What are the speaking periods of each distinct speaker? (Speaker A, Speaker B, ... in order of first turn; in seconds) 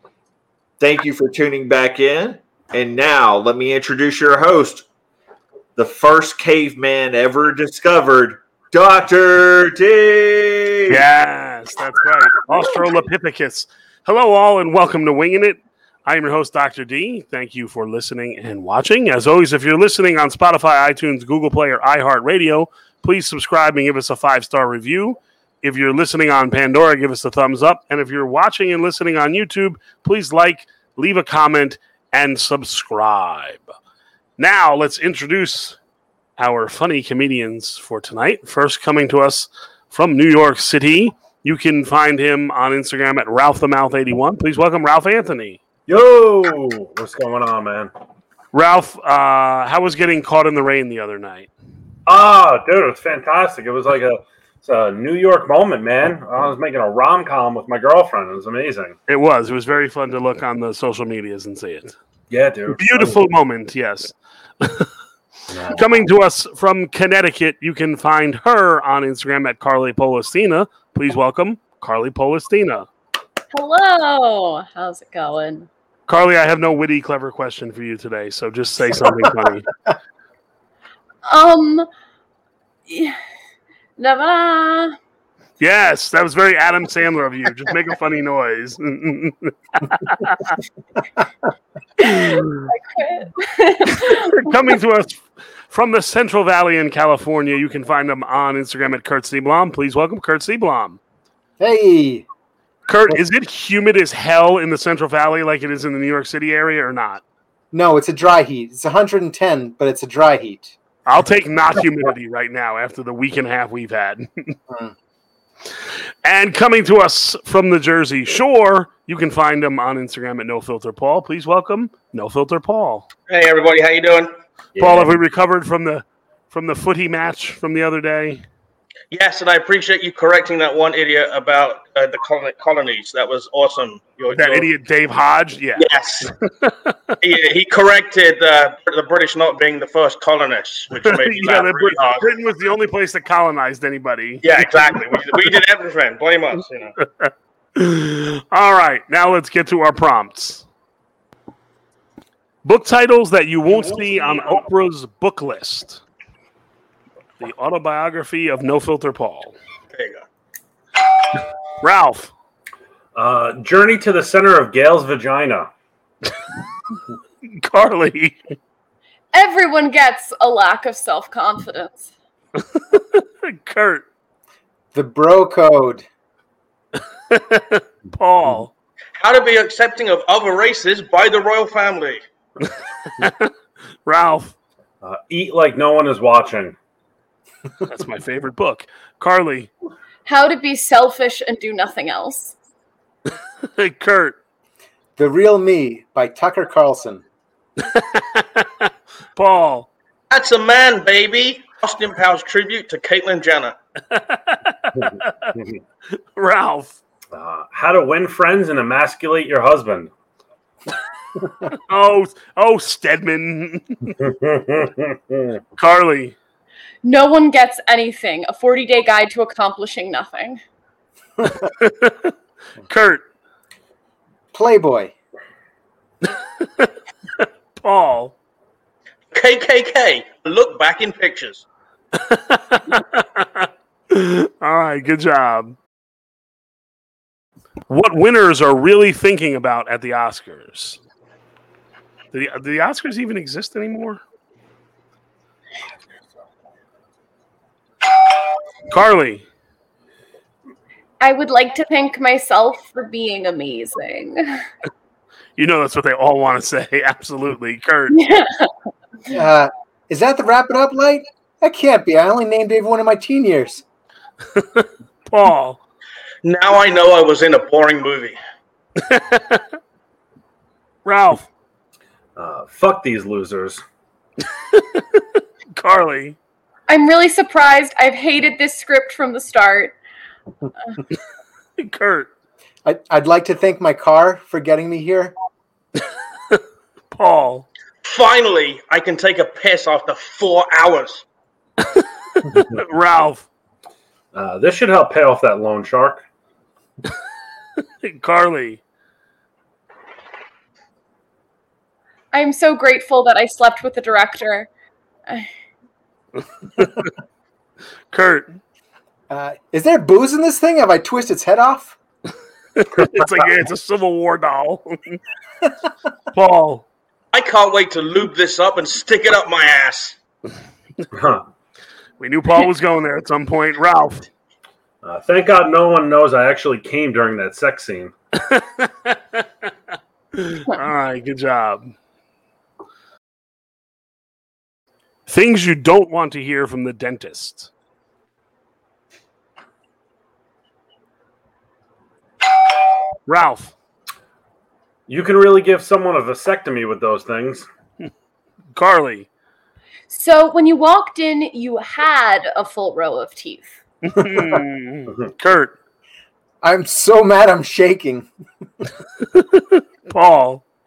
Speaker A: 0.8-4.8, 5.8-11.1
Speaker B: 10.9-33.6, 34.4-35.8, 36.4-45.6, 48.5-51.5, 59.1-61.9, 62.8-64.9, 65.7-72.9, 76.1-79.7, 85.6-90.6, 92.0-92.7, 93.9-101.0, 102.9-107.2, 111.0-114.5, 116.2-123.1, 124.8-128.4, 134.3-136.9, 141.0-145.4, 147.2-150.7, 152.6-156.0, 157.4-159.5, 161.8-162.3, 167.5-168.5, 172.8-174.0, 177.3-178.7, 183.2-183.5, 184.0-184.5, 187.8-189.7, 193.8-194.3, 197.8-199.9, 204.1-205.5, 206.3-207.0, 211.7-214.2, 215.8-216.3, 221.7-222.3, 222.9-223.2, 227.4-228.3, 232.2-235.8, 237.9-241.0, 242.3-244.2, 248.9-249.4, 255.6-258.2, 264.6-265.8, 269.0-269.6, 271.1-271.5, 274.7-275.2, 275.7-276.4, 281.8-282.3, 287.1-287.7, 291.8-293.4, 298.0-298.8, 306.8-307.1, 308.1-308.6, 312.8-315.2, 316.3-316.8, 322.2-324.3, 328.5-329.4, 330.3-331.9, 335.3-337.7, 343.2-343.7, 348.8-349.3, 354.1-355.7, 359.3-360.6
Speaker C: 45.9-47.9, 52.1-58.9, 62.3-63.2, 65.5-66.0, 124.8-125.2, 163.2-165.7, 185.0-186.8, 207.3-210.1, 214.2-215.6, 272.4-273.8, 294.3-296.2, 321.1-321.4, 325.0-328.1, 345.1-347.7
Speaker D: 73.5-75.7, 81.2-81.9, 82.9-83.2, 84.0-84.9, 92.1-94.2, 169.3-172.1, 190.2-192.6, 217.0-220.6, 251.2-254.6, 258.2-258.7, 276.9-279.9, 302.3-304.7, 350.1-353.7
Speaker E: 101.6-102.3, 107.7-110.8, 174.9-176.0, 195.2-197.2, 224.5-225.1, 259.3-263.8, 282.8-285.3, 309.3-311.9, 356.6-358.3
Speaker F: 123.3-124.3, 129.1-134.7, 135.8-136.3, 137.2-142.3, 144.4-146.9, 159.9-160.2, 179.2-182.2, 200.3-203.8, 229.3-231.7, 266.4-268.4, 288.0-291.2, 317.3-320.1